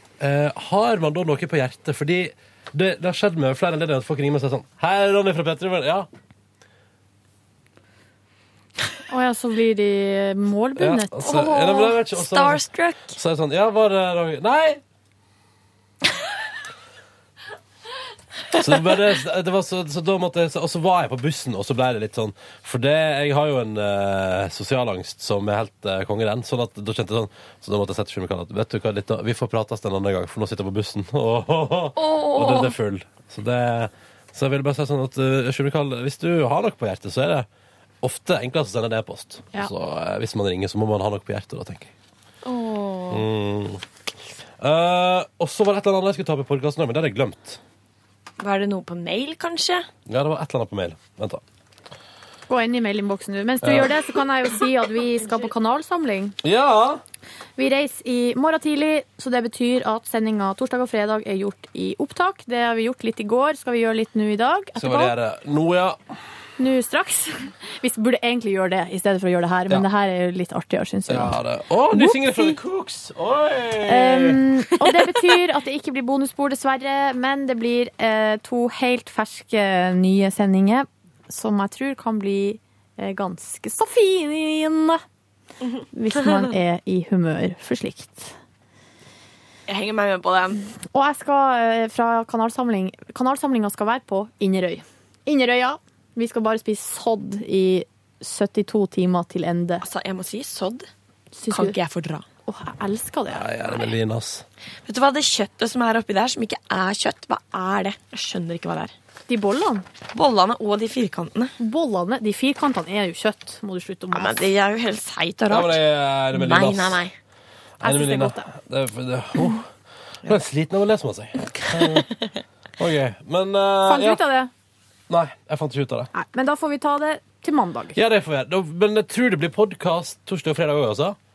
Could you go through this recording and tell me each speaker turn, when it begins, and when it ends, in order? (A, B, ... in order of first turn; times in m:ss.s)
0:00.2-0:06.1 A
0:09.1-0:11.9 B
0:10.8-0:14.8 A
0:11.4-0:13.2 C
0:18.6-0:37.5 A
0:32.0-0:32.8 C
0:38.0-0:41.9 A
0:42.4-0:43.3 C
0:43.1-0:43.8 A
0:44.6-0:47.6 A
0:48.4-0:49.9 C
0:50.1-0:51.4 A
0:52.5-0:56.4 B
0:53.6-0:53.9 A
0:56.4-0:57.0 A
0:57.6-1:05.1 B
1:04.8-1:06.0 A
1:06.6-1:11.4 B
1:11.1-1:14.9 A
1:11.9-1:12.6 B
1:13.9-1:25.0 B
1:25.6-1:26.4 C
1:25.9-1:28.3 B
1:29.7-1:30.6 C
1:30.9-1:39.8 B
1:39.8-1:40.9 C
1:41.3-1:41.8 B
1:41.5-1:42.2 C
1:42.5-1:43.9 B
1:43.3-1:44.4 A
1:44.9-1:48.9 C
1:49.3-1:49.8 B
1:50.1-1:51.6 C
1:51.6-1:54.5 B
1:54.1-1:57.1 C
1:55.5-1:57.0 A
1:57.8-1:59.7 A
1:57.8-1:58.4 B
2:00.2-2:02.2 A
2:02.8-2:04.2 A
2:03.8-2:04.5 B
2:05.1-2:06.1 A
2:06.2-2:08.0 B
2:08.0-2:11.2 A